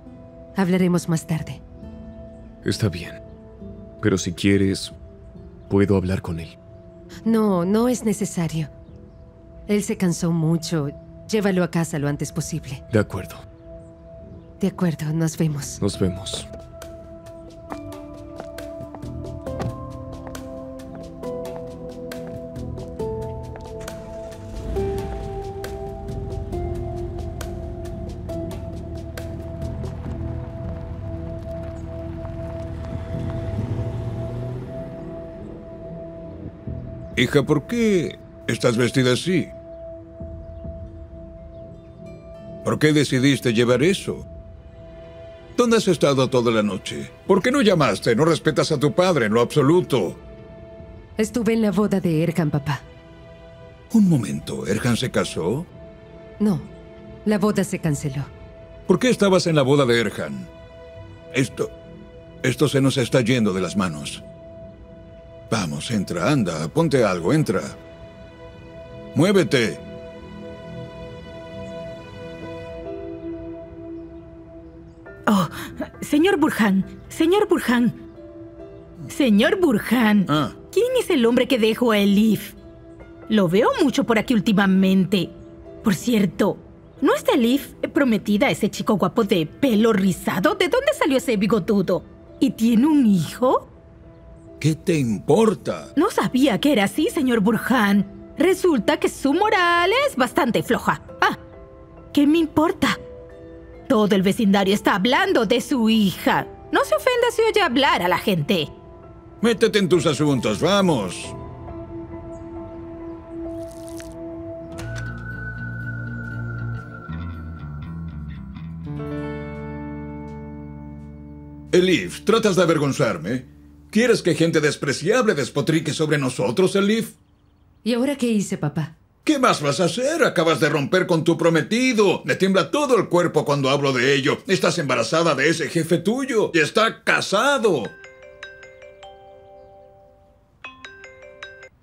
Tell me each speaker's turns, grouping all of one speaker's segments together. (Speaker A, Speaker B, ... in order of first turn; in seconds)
Speaker A: 0.6-1.6, 7.2-8.7, 9.7-12.8, 14.6-15.8, 51.2-52.8, 56.4-56.7, 57.2-58.3, 127.8-128.9
Speaker B: 2.6-3.2, 4.0-5.0, 5.7-6.5, 12.9-13.4, 15.8-16.5
Speaker C: 37.1-39.5, 42.6-44.2, 45.6-50.2, 53.9-55.7, 58.9-60.5, 61.3-61.7, 62.4-64.2, 65.5-67.8, 69.1-69.8, 80.3-80.5, 94.6-95.9, 109.4-111.3, 121.7-127.2, 129.2-137.9
Speaker D: 75.3-77.9, 79.1-82.5, 83.3-93.7, 96.0-101.4, 102.1-103.0, 103.9-108.7